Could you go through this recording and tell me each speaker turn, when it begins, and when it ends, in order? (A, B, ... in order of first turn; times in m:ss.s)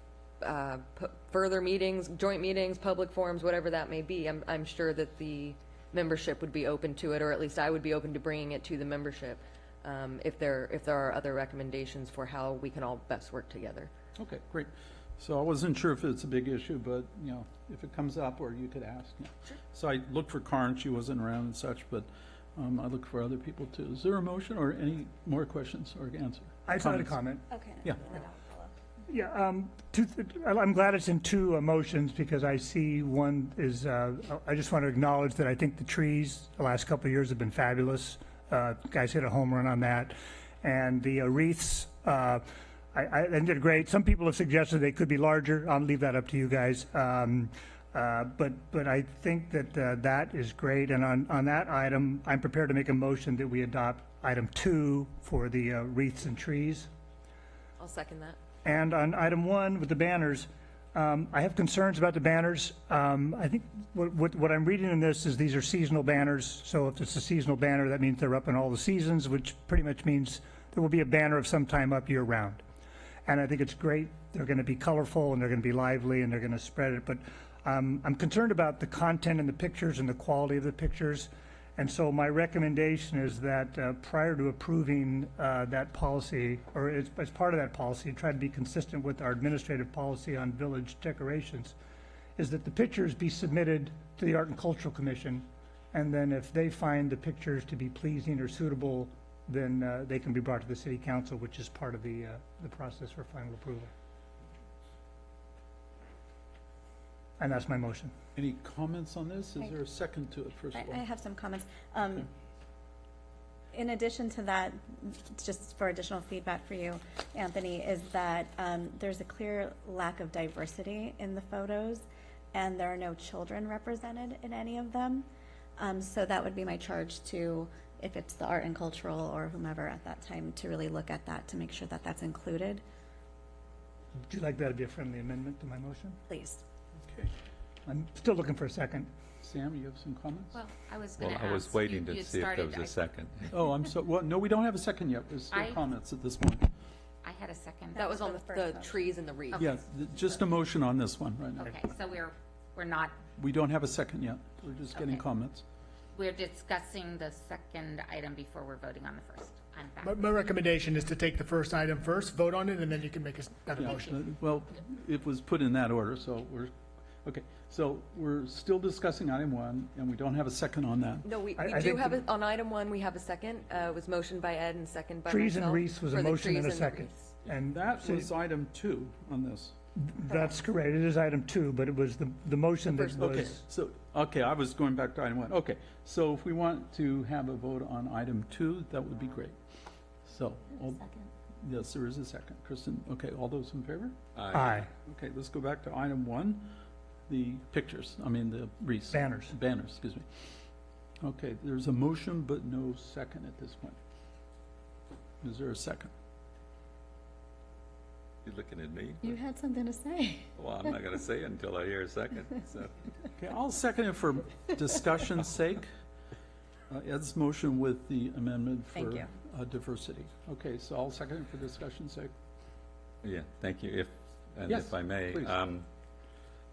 0:00.4-0:13.9 A
0:14.2-0:27.2 B
0:26.6-0:27.5 C
0:27.5-0:28.7 D
0:29.1-0:56.9 C
0:57.8-0:58.4 A
0:58.6-1:12.6 C
1:13.2-1:31.8 C
1:32.4-1:43.9 C
1:47.4-1:48.1 C
1:48.3-1:51.0 B
1:50.7-1:52.3 D
1:53.7-2:12.8 D
2:14.2-2:16.2 C
2:16.3-2:16.6 D
2:17.0-2:17.3 B
2:17.8-2:19.1 C
2:19.4-2:20.5 B
2:20.5-2:23.0 E
2:21.2-2:23.5 F
2:23.5-2:26.7 B
2:25.5-2:25.8 E
2:27.2-2:28.2 E
2:27.9-2:29.1 D
2:28.0-2:29.6 A
2:29.5-2:29.8 E
2:29.6-2:31.7 B
2:31.6-2:33.1 E
2:33.4-2:35.6 B
2:34.9-2:35.2 E
2:36.1-2:40.2 E
2:40.0-2:44.2 G
2:43.8-2:46.7 B
2:47.2-2:51.2 B
2:51.2-2:57.3 A
2:51.6-2:52.2 C
2:55.3-2:58.3 C
2:57.7-2:59.7 B
3:00.0-3:03.6 C
3:02.9-3:03.3 A
3:03.1-3:09.6 B
3:10.2-3:11.0 B
3:10.7-3:11.3 D
3:11.6-3:14.1 B
3:14.3-3:14.8 F
3:14.5-3:14.9 C
3:15.0-3:16.7 B
3:17.3-3:20.6 B
3:19.1-3:19.5 C
3:21.2-3:24.0 B
3:25.4-3:26.1 B
3:28.4-3:29.4 F
3:29.2-3:30.5 D
3:30.6-3:33.0 F
3:33.4-3:35.9 B
3:36.9-3:42.3 B
3:38.9-3:39.3 D
3:43.2-3:45.8 F
3:44.7-3:45.6 B